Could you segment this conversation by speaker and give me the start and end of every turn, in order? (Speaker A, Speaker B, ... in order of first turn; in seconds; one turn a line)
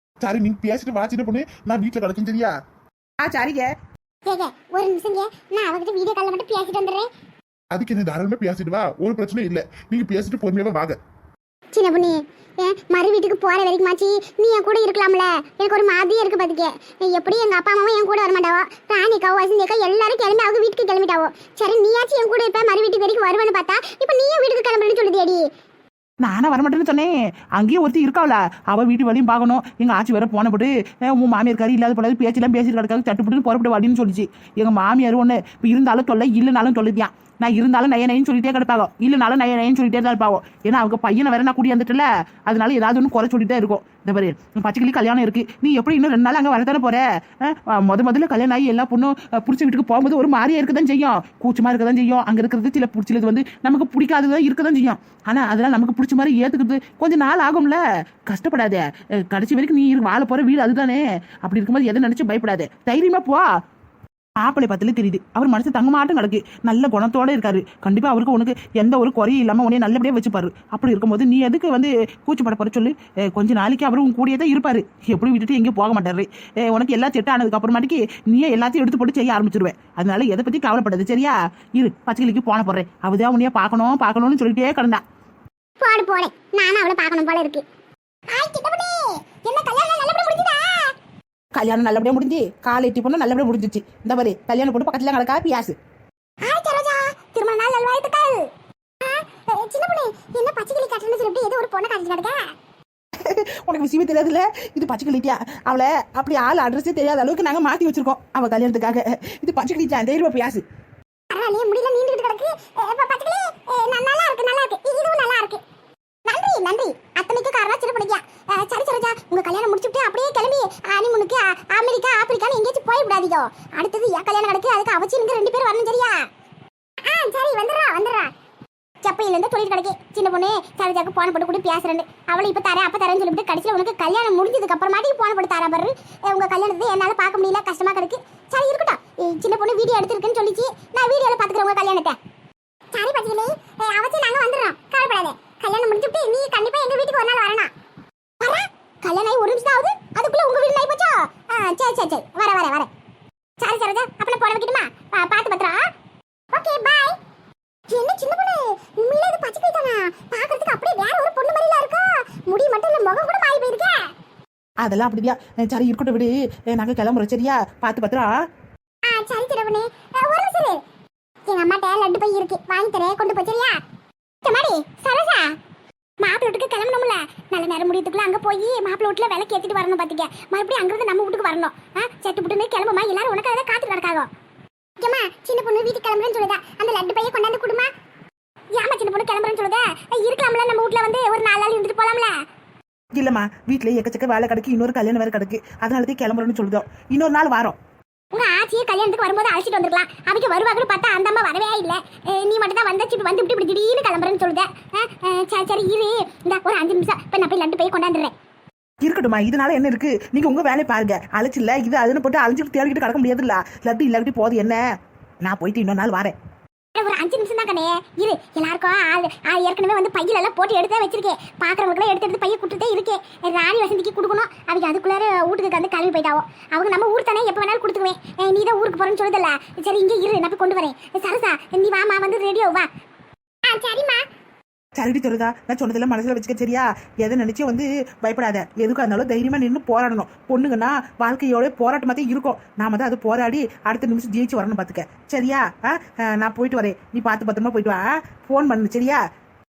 Speaker A: 0.2-2.0
Speaker B: 0.3-2.5
Speaker B: 3.2-3.7
Speaker C: 4.2-7.1
Speaker A: 7.7-10.8
Speaker B: 7.8-9.6
Speaker B: 10.2-10.9
Speaker C: 11.7-25.4
Speaker B: 26.2-63.4
Speaker B: 64.4-85.0
Speaker C: 85.8-87.6
Speaker C: 88.3-90.9
Speaker B: 91.5-95.7
Speaker C: 96.4-98.5
Speaker C: 99.0-102.5
Speaker B: 103.2-110.6
Speaker C: 111.3-115.6
Speaker C: 116.3-126.3
Speaker C: 127.0-128.3
Speaker C: 129.0-142.2
Speaker C: 142.9-147.7
Speaker C: 148.4-152.9
Speaker C: 153.6-155.8
Speaker C: 156.5-157.2
Speaker C: 157.9-164.1
Speaker B: 164.8-168.3
Speaker C: 169.1-170.8
Speaker C: 171.5-173.8
Speaker C: 174.4-175.5
Speaker C: 176.2-184.3
Speaker C: 185.0-187.9
Speaker C: 188.7-192.3
Speaker B: 193.1-197.8
Speaker C: 198.3-208.3
Speaker B: 209.0-214.8
Speaker B: 215.4-216.3
Speaker C: 216.9-232.9
Speaker C: 233.6-234.2
Speaker B: 234.9-249.2